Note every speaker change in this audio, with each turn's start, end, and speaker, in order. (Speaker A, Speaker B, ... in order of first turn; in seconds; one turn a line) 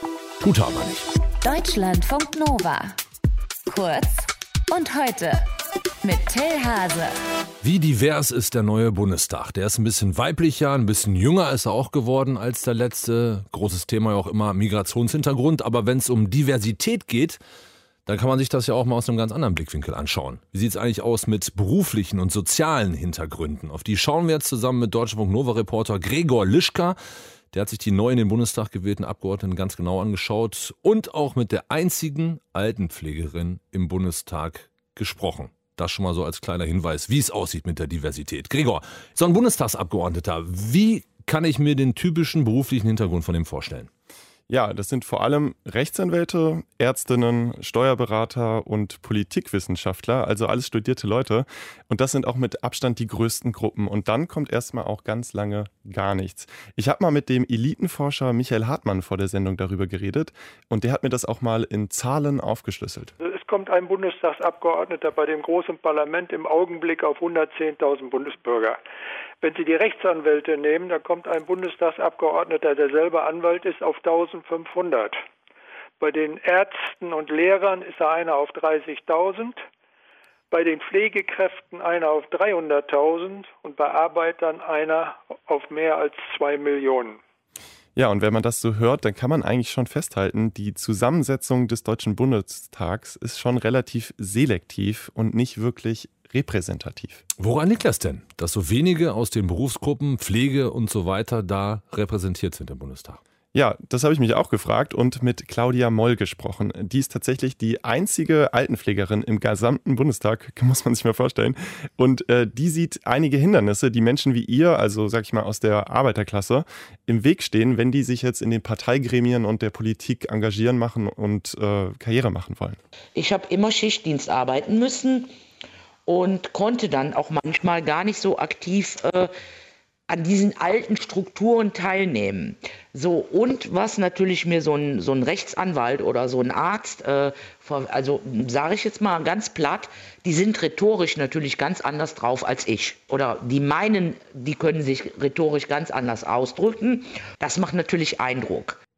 Speaker A: 0.4-1.1
Speaker B: 1.4-3.0
Speaker B: 3.7-5.4
Speaker B: 6.0-7.2
Speaker A: 7.6-17.4
Speaker A: 18.1-27.0
Speaker A: 27.5-43.9
Speaker C: 44.5-63.1
Speaker D: 63.2-68.8
Speaker D: 69.4-75.1
Speaker D: 76.0-79.6
Speaker D: 80.5-87.2
Speaker C: 88.0-97.2
Speaker A: 97.4-103.2
Speaker C: 103.5-122.8
Speaker E: 123.2-125.3
Speaker E: 126.0-129.3
Speaker E: 130.1-148.8